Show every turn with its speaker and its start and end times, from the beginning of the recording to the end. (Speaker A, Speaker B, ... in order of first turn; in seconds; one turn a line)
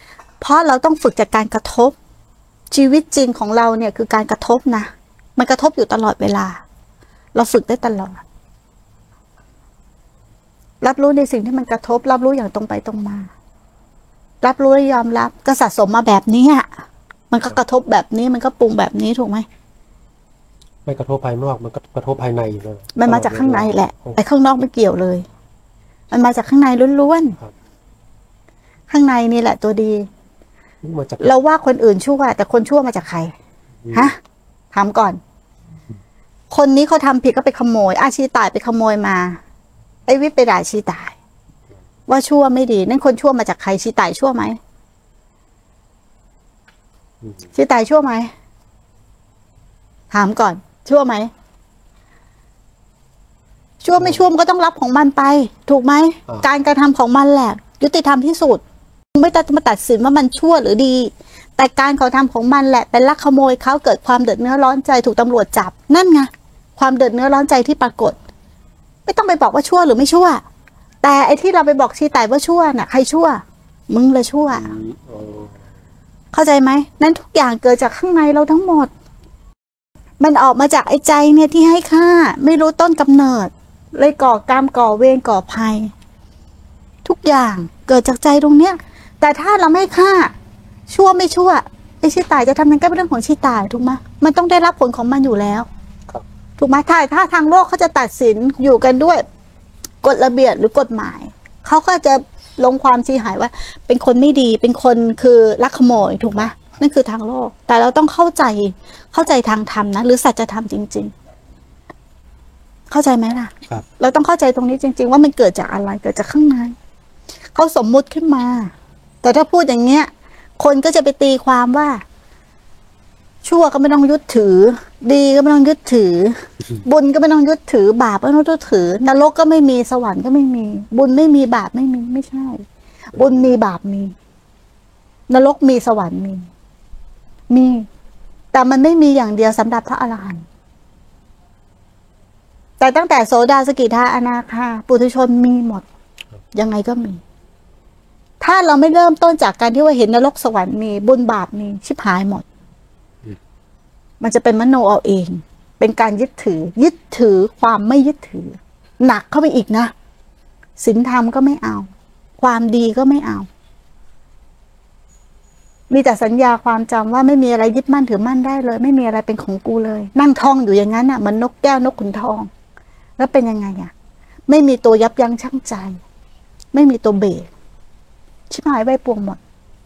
Speaker A: 0.4-1.9
Speaker A: 2.7-6.6
Speaker A: 7.3-8.2
Speaker A: 10.8-13.3
Speaker A: 14.4-16.7
Speaker A: 17.3-19.5
Speaker B: 20.9-24.2
Speaker A: 23.0-25.2
Speaker A: 26.1-27.4
Speaker A: 28.9-30.1
Speaker B: 30.8-31.3
Speaker A: 31.2-33.3
Speaker B: 33.8-34.1
Speaker A: 34.7-35.2
Speaker A: 36.5-39.4
Speaker A: 40.1-41.2
Speaker A: 42.1-44.6
Speaker A: 47.5-48.3
Speaker A: 50.1-51.3
Speaker A: 53.8-58.6
Speaker A: 59.1-68.2
Speaker A: 69.1-70.4
Speaker A: 71.0-74.7
Speaker B: 74.5-75.5
Speaker A: 76.3-78.9
Speaker A: 80.2-85.9
Speaker A: 87.0-90.3
Speaker A: 90.9-95.7
Speaker A: 96.6-99.2
Speaker A: 100.0-111.1
Speaker A: 112.9-116.7
Speaker A: 117.5-118.7
Speaker A: 119.2-122.0
Speaker A: 123.4-134.1
Speaker B: 133.2-133.5
Speaker A: 135.3-136.5
Speaker A: 137.5-137.9
Speaker A: 138.5-140.4
Speaker A: 142.8-145.8
Speaker A: 146.5-147.2
Speaker A: 148.4-152.5
Speaker A: 154.2-159.9
Speaker A: 160.8-161.9
Speaker A: 162.4-163.5
Speaker A: 165.9-172.5
Speaker A: 173.2-173.9
Speaker A: 174.5-176.0
Speaker A: 176.7-177.5
Speaker A: 178.5-179.4